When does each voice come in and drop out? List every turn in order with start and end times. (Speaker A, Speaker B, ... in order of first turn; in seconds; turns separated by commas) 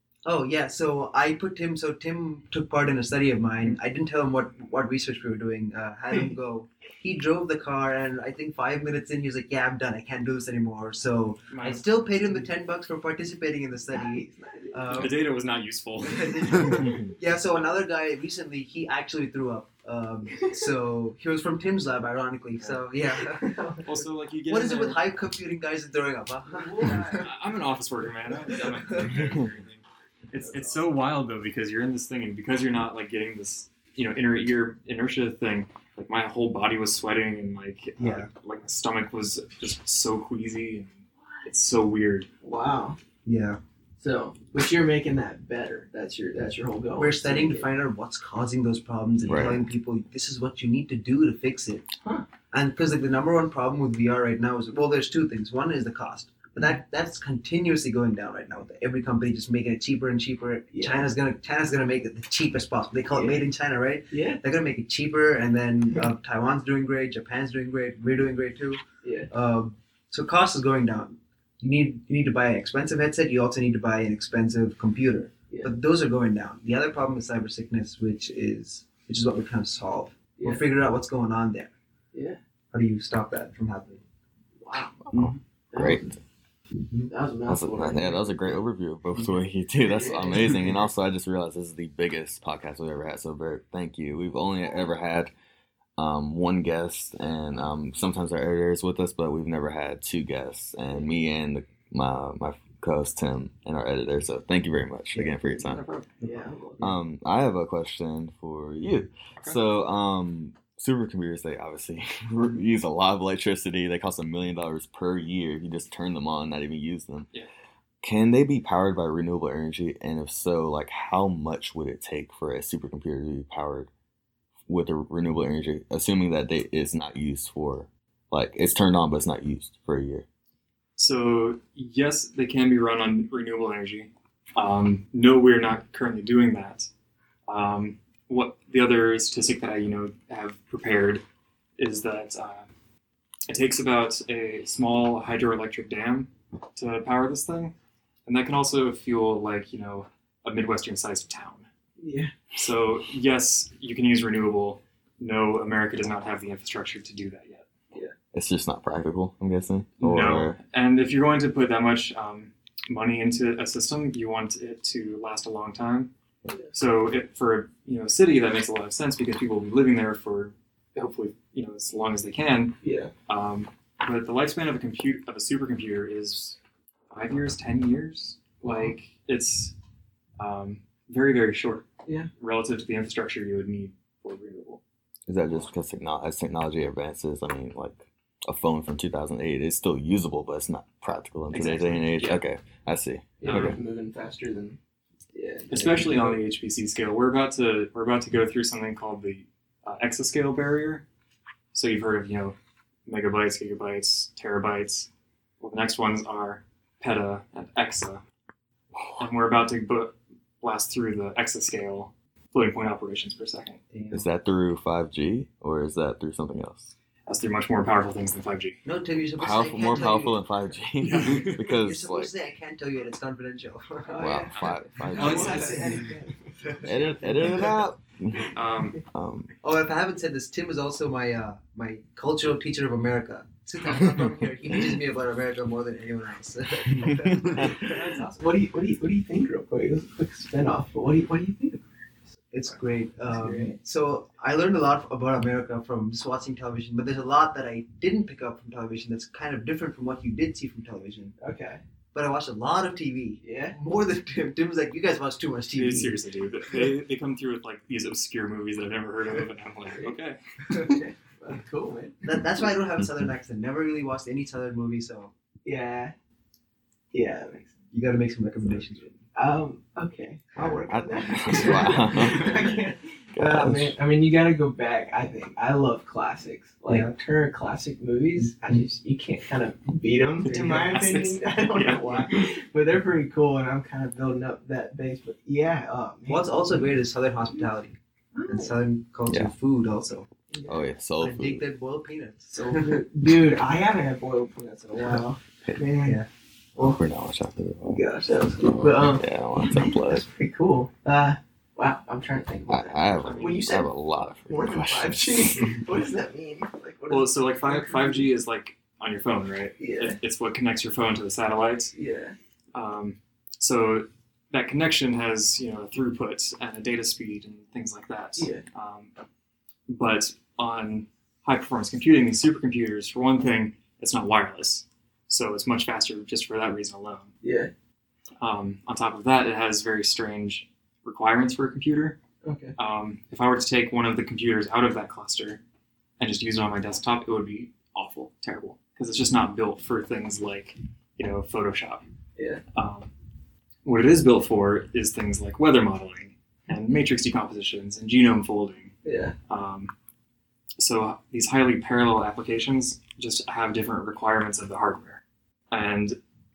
Speaker A: 0.2-15.2, Speaker B: 6.1-6.3, Speaker C: 11.5-12.4, Speaker B: 13.9-15.2, Speaker C: 14.9-16.8, Speaker A: 16.0-23.5, Speaker B: 16.2-17.1, Speaker B: 22.6-23.8, Speaker C: 23.8-25.0, Speaker A: 24.5-27.3, Speaker B: 26.4-27.3, Speaker C: 26.8-42.3, Speaker A: 28.9-29.1, Speaker D: 29.1-29.5, Speaker B: 30.4-30.8, Speaker A: 38.0-38.3, Speaker B: 42.4-43.0, Speaker A: 43.2-43.6, Speaker B: 44.0-47.7, Speaker A: 47.0-51.9, Speaker D: 49.2-49.6, Speaker A: 52.5-81.7, Speaker B: 60.7-61.1, Speaker B: 63.1-63.5, Speaker B: 64.1-64.4, Speaker B: 69.0-69.3, Speaker B: 80.4-80.6, Speaker B: 82.1-82.4, Speaker A: 82.7-84.0, Speaker B: 84.6-85.1, Speaker D: 85.1-86.1, Speaker B: 85.7-86.2, Speaker B: 87.1-88.2, Speaker D: 87.5-95.3, Speaker B: 89.8-90.6, Speaker D: 96.0-105.8, Speaker C: 105.7-106.1, Speaker A: 106.2-106.9, Speaker B: 106.2-106.8, Speaker D: 106.8-117.3, Speaker D: 118.0-123.9, Speaker D: 124.7-130.2, Speaker C: 131.0-136.9, Speaker C: 137.5-141.2, Speaker C: 141.8-142.7, Speaker C: 143.5-147.7, Speaker C: 148.2-151.7, Speaker B: 152.0-152.3, Speaker C: 152.5-157.7, Speaker D: 158.3-160.6, Speaker C: 160.0-166.1, Speaker C: 166.7-172.8, Speaker B: 172.8-173.1, Speaker C: 173.3-176.6, Speaker C: 177.1-179.7, Speaker B: 178.6-178.9, Speaker C: 180.4-181.8, Speaker C: 182.4-184.8, Speaker D: 185.3-193.7, Speaker C: 191.5-192.4, Speaker B: 193.4-194.8, Speaker C: 193.4-193.8, Speaker B: 195.3-196.4, Speaker C: 195.7-201.0, Speaker C: 201.7-205.1, Speaker C: 205.6-208.2, Speaker D: 208.9-209.2, Speaker C: 209.2-213.8, Speaker A: 213.9-214.2, Speaker D: 214.1-216.9, Speaker C: 217.3-218.8, Speaker A: 218.8-220.4, Speaker D: 219.4-222.3, Speaker C: 221.0-221.6, Speaker A: 221.3-224.4, Speaker B: 224.0-227.8, Speaker D: 224.2-225.9, Speaker C: 224.5-226.1, Speaker A: 225.3-225.8, Speaker A: 226.6-227.4, Speaker D: 226.8-228.5, Speaker C: 228.5-229.0, Speaker D: 229.1-229.5, Speaker A: 229.6-238.2, Speaker D: 233.9-235.0, Speaker D: 236.9-238.0, Speaker B: 237.4-241.8, Speaker A: 242.5-251.3, Speaker B: 243.3-243.8, Speaker B: 251.4-251.8, Speaker A: 252.1-256.2, Speaker B: 253.4-253.8, Speaker C: 255.7-260.4, Speaker B: 260.7-262.4, Speaker A: 262.2-265.3, Speaker B: 265.6-266.1, Speaker B: 267.1-267.7, Speaker A: 267.9-269.2, Speaker B: 269.3-286.9, Speaker D: 270.6-272.8, Speaker D: 273.3-273.9, Speaker A: 276.9-277.1, Speaker A: 278.4-278.8, Speaker C: 280.4-282.3, Speaker A: 286.3-288.0, Speaker B: 288.3-288.8, Speaker A: 288.5-290.3, Speaker D: 289.3-289.5, Speaker B: 290.5-290.8, Speaker D: 290.6-291.7, Speaker A: 291.2-293.0, Speaker B: 292.5-296.2, Speaker A: 296.0-296.3, Speaker D: 296.8-298.0, Speaker B: 297.9-303.9, Speaker D: 298.7-300.2, Speaker D: 302.7-305.8, Speaker C: 303.2-303.6, Speaker B: 304.4-308.2, Speaker C: 307.1-311.9, Speaker B: 309.8-310.2, Speaker B: 311.9-312.4, Speaker C: 312.7-319.1, Speaker B: 318.4-318.6, Speaker C: 319.9-327.3, Speaker B: 327.4-327.7, Speaker C: 328.4-332.2, Speaker B: 332.4-332.8, Speaker C: 332.8-335.6, Speaker C: 336.2-342.0, Speaker B: 342.4-342.6, Speaker C: 342.7-343.1, Speaker C: 343.8-348.9, Speaker B: 349.0-349.3, Speaker C: 349.5-349.9, Speaker C: 350.8-356.2